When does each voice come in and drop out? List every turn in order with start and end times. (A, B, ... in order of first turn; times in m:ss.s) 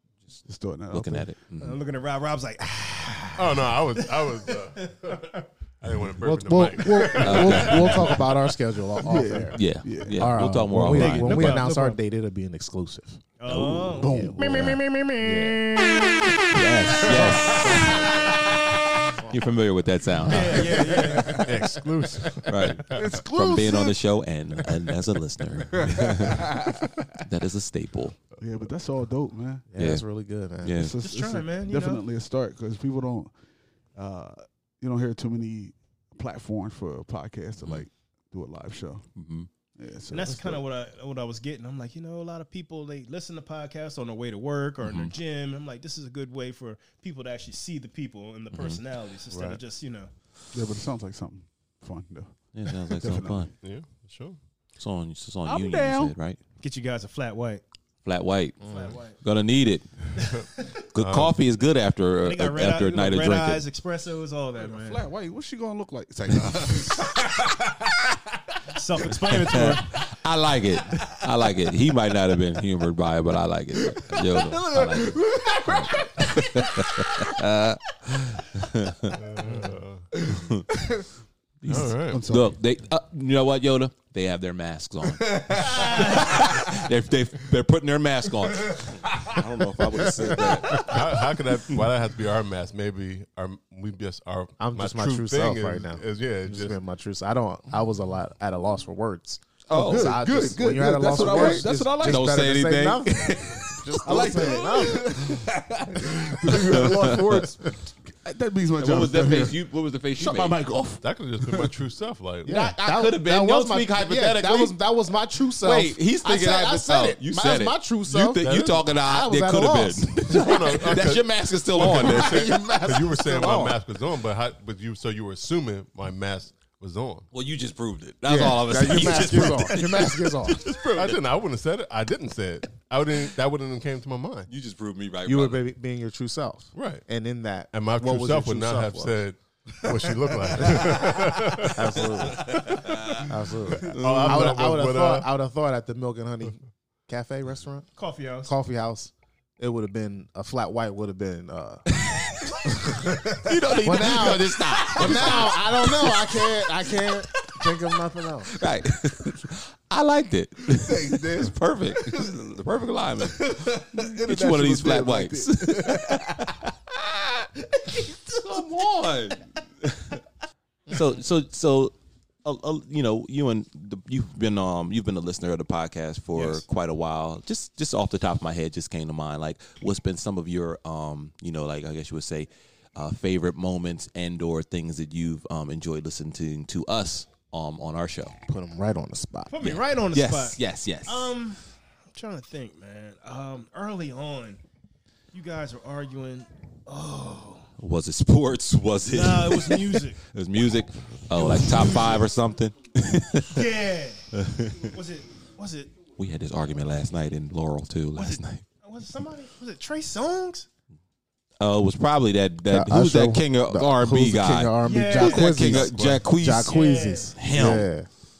0:00.3-0:01.8 A
0:00.4-0:01.3 B
0:01.6-0:05.4 C
0:03.4-0:08.2 D
0:06.2-0:14.6 E
0:06.9-0:07.4 C
0:07.2-0:08.0 A
0:09.0-0:10.4 B
0:09.5-0:11.6 A
0:10.8-0:12.0 C
0:13.4-0:15.8 C
0:13.5-0:14.6 B
0:14.4-0:14.8 A
0:15.1-0:15.8 E
0:16.5-0:18.2 A
0:17.2-0:17.8 B
0:17.2-0:18.1 E
0:19.3-0:20.8 A
0:20.2-0:21.4 C
0:21.3-0:23.2 D
0:22.4-0:26.6 A
0:22.9-0:24.0 B
0:25.7-0:26.8 B
0:27.2-0:28.2 A
0:28.4-0:29.7 B
0:29.7-0:30.8 E
0:29.8-0:30.1 A
0:30.6-0:31.0 A
0:30.8-0:33.3 B
0:31.0-0:32.0 C
0:34.0-0:39.1 B
0:37.6-0:37.9 A
0:39.2-0:39.5 A
0:39.7-0:40.6 B
0:40.1-0:50.1 C
0:44.8-0:45.1 A
0:48.5-0:48.8 A
0:49.3-0:49.6 E
0:50.5-0:53.5 B
0:52.5-0:53.5 A
0:53.6-0:54.4 D
0:54.8-0:56.4 A
0:55.4-0:56.1 B
0:56.6-0:57.6 C
0:58.0-0:59.9 A
0:58.6-0:59.0 E
0:58.6-0:59.2 C
1:00.2-1:01.4 D
1:00.2-1:00.7 C
1:00.9-1:03.6 A
1:02.2-1:05.0 C
1:04.6-1:07.7 B
1:08.7-1:09.9 C
1:09.3-1:19.2 A
1:13.8-1:17.2 B
1:19.2-1:20.1 D
1:20.2-1:21.0 B
1:20.4-1:20.6 A
1:21.6-1:30.9 A
1:21.7-1:22.3 D
1:22.1-1:22.6 B
1:25.2-1:26.6 B
1:25.7-1:26.4 C
1:30.8-1:36.8 D
1:34.6-1:45.4 E
1:39.7-1:40.1 A
1:39.8-1:42.4 B
1:41.2-1:43.8 A
1:44.0-1:51.7 B
1:46.7-1:47.2 A
1:48.8-1:50.6 A
1:51.0-1:52.6 D
1:52.4-2:01.0 E
1:52.5-1:54.8 A
1:55.6-2:02.5 A
1:58.4-1:58.8 D
2:00.3-2:07.3 D
2:01.9-2:03.8 E
2:07.3-2:11.2 A
2:08.2-2:10.6 E
2:10.6-2:14.5 D
2:14.5-2:15.6 A
2:15.3-2:19.2 E
2:16.7-2:17.1 D
2:17.7-2:22.9 D
2:20.6-2:22.7 E
2:22.6-2:23.3 A
2:23.2-2:27.9 E
2:23.8-2:25.3 D
2:23.9-2:24.5 A
2:28.0-2:28.5 C
2:28.4-2:31.8 E
2:32.6-2:38.5 E
2:33.4-2:36.4 A
2:38.5-2:47.4 A
2:40.7-2:42.4 B
2:43.3-2:46.6 B
2:47.8-2:48.2 B
2:48.3-2:50.2 A
2:50.9-3:08.4 A
3:08.5-3:09.6 E
3:09.5-3:11.6 C
3:09.6-3:11.3 A
3:12.1-3:14.6 C
3:15.3-3:17.7 C
3:17.8-3:23.6 A
3:19.0-3:20.2 C
3:21.4-3:22.3 C
3:23.5-3:26.0 C
3:24.3-3:24.9 A
3:26.2-3:28.6 A
3:28.2-3:30.7 C
3:31.6-3:36.8 A
3:32.7-3:38.1 E
3:34.8-3:35.9 C
3:36.6-3:37.4 C
3:37.3-3:37.9 A